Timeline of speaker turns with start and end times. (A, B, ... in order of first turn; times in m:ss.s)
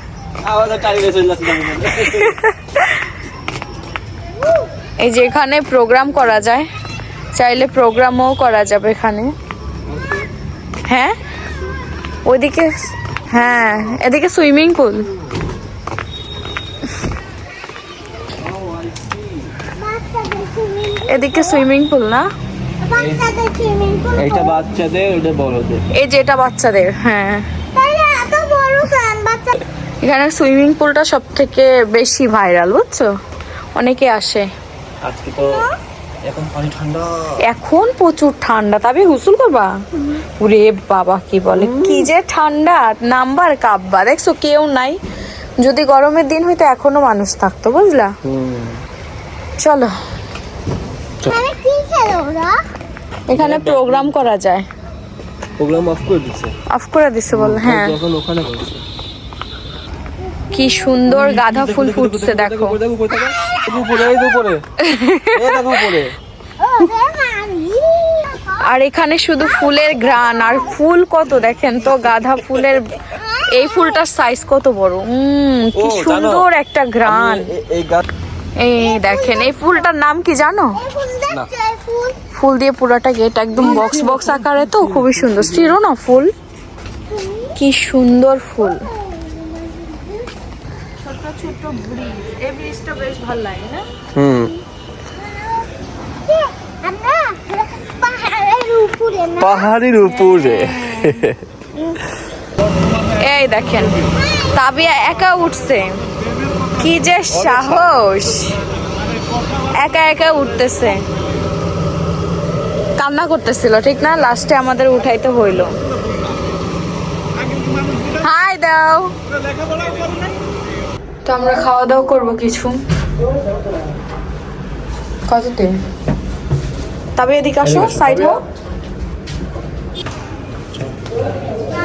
0:00.4-0:02.4 A
0:02.2-0:02.8 B
0:05.0-0:06.7 B
0:07.4-0:09.3 B
0:09.9-0:10.2 A
0:10.9-0:11.1 B
0:12.3-0:12.7 B
0:13.3-0:15.0 B
0:18.5-0:19.3 A
0:19.7-0:21.6 C
0:21.1-0:22.3 B
0:22.8-0:24.6 C
0:22.9-0:23.2 A
0:24.2-0:25.8 A
0:26.0-0:27.5 B
0:27.7-0:29.6 C
0:30.0-0:33.0 B
0:33.8-0:34.5 B
0:35.0-0:35.7 A
0:36.3-0:37.4 A
0:37.5-0:39.7 B
0:40.4-0:45.0 B
0:41.5-0:42.1 A
0:45.6-0:48.1 B
0:48.2-0:48.8 A
0:49.6-0:49.9 B
0:51.3-0:52.6 C
0:53.3-0:54.7 B
0:53.3-0:54.3 A
0:55.6-0:56.5 A
0:56.7-0:58.0 B
0:57.3-0:58.8 A
1:00.5-1:02.8 B
1:01.1-1:04.6 A
1:04.8-1:05.6 B
1:05.3-1:06.2 A
1:06.6-1:08.6 C
1:08.6-1:13.0 B
1:13.2-1:14.0 C
1:13.5-1:17.5 B
1:15.8-1:16.5 A
1:17.0-1:18.0 A
1:18.6-1:20.8 B
1:18.8-1:19.6 C
1:20.8-1:22.2 C
1:22.4-1:26.3 B
1:23.6-1:25.8 A
1:27.1-1:27.5 C
1:27.6-1:28.8 B
1:28.9-1:30.3 C
1:31.0-1:33.8 B
1:34.2-1:34.5 A
1:35.2-1:35.7 C
1:36.3-1:39.7 C
1:39.4-1:41.4 A
1:40.0-1:41.2 B
1:43.2-1:43.9 B
1:44.2-1:44.5 C
1:44.5-1:45.9 B
1:46.8-1:48.6 B
1:47.4-1:47.8 A
1:49.8-1:51.0 B
1:53.0-1:55.7 B
1:58.2-1:59.1 B
2:01.2-2:02.8 B
2:05.3-2:05.7 B
2:07.2-2:08.4 B
2:07.6-2:08.4 A